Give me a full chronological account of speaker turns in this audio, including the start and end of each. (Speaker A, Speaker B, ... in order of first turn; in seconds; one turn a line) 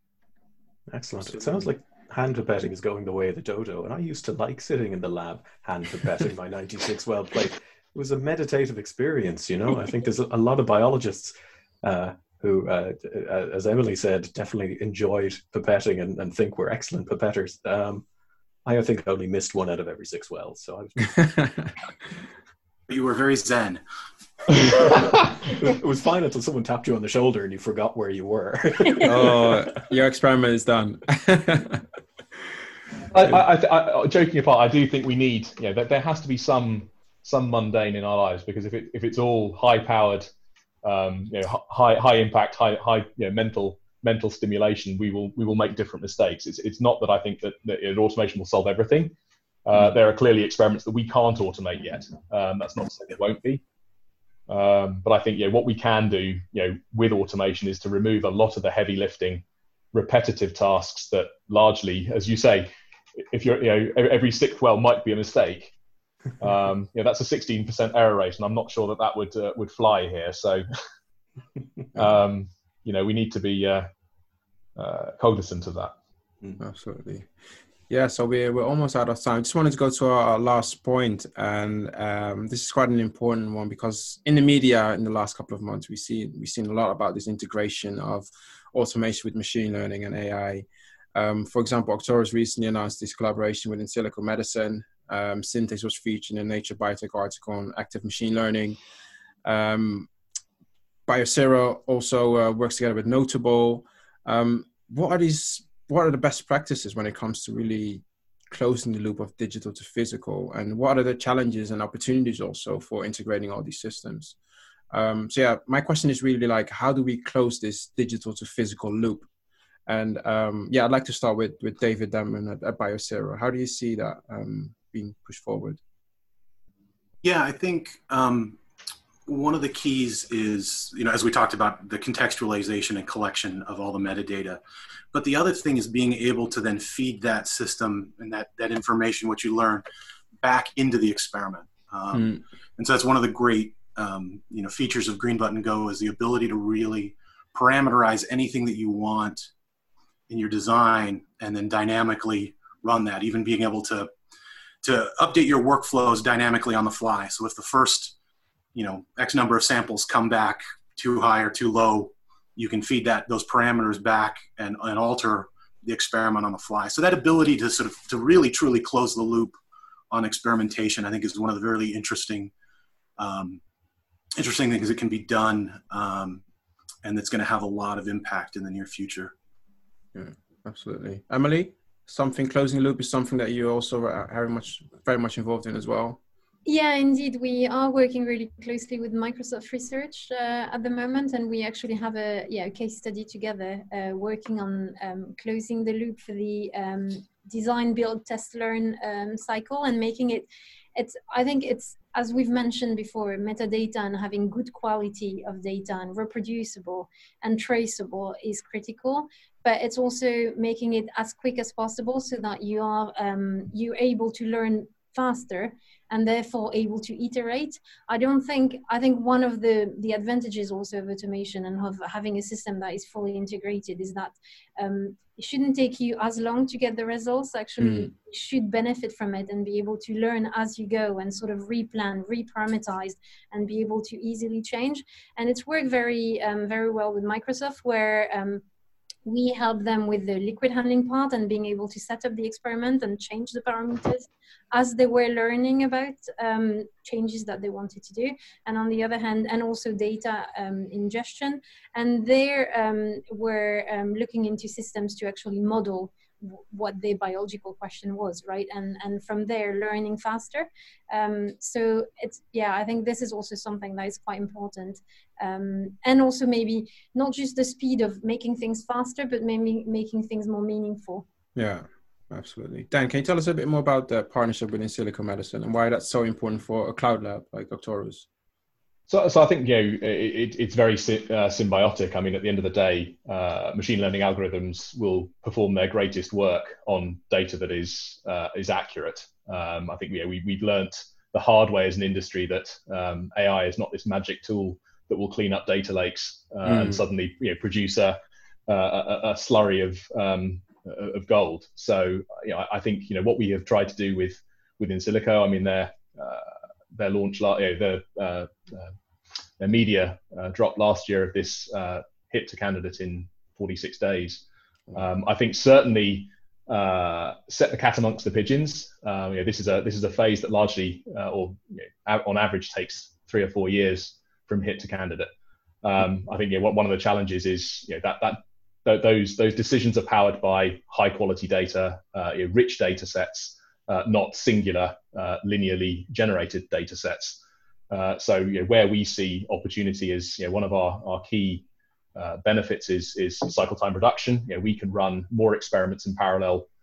Speaker A: 0.9-18.0
Speaker A: 18.6-21.2
Speaker B: 21.0-21.7
Speaker C: 22.9-23.8
Speaker A: 24.7-29.8
Speaker B: 29.0-31.9
Speaker D: 33.1-40.3
Speaker D: 40.8-49.1
Speaker D: 49.6-53.6
Speaker D: 54.5-65.7
Speaker D: 66.4-70.6
Speaker D: 71.9-73.9
Speaker D: 74.8-75.9
Speaker B: 76.6-77.3
Speaker B: 77.9-98.8
Speaker B: 99.4-100.1
Speaker B: 101.1-114.4
Speaker B: 114.9-119.3
Speaker B: 119.9-125.8
Speaker C: 127.2-128.6
Speaker C: 129.2-134.6
Speaker C: 135.1-139.8
Speaker C: 140.4-149.5
Speaker C: 150.3-154.1
Speaker C: 154.8-158.1
Speaker C: 158.7-169.6
Speaker C: 170.1-172.5
Speaker C: 173.2-173.6
Speaker C: 174.3-176.4
Speaker C: 177.0-179.3
Speaker B: 180.1-186.2
Speaker E: 186.7-238.6
Speaker B: 227.8-228.1
Speaker E: 239.2-271.2
Speaker B: 271.5-278.3
Speaker D: 279.1-308.9
Speaker B: 296.6-297.0
Speaker D: 309.6-325.3
Speaker D: 325.8-346.7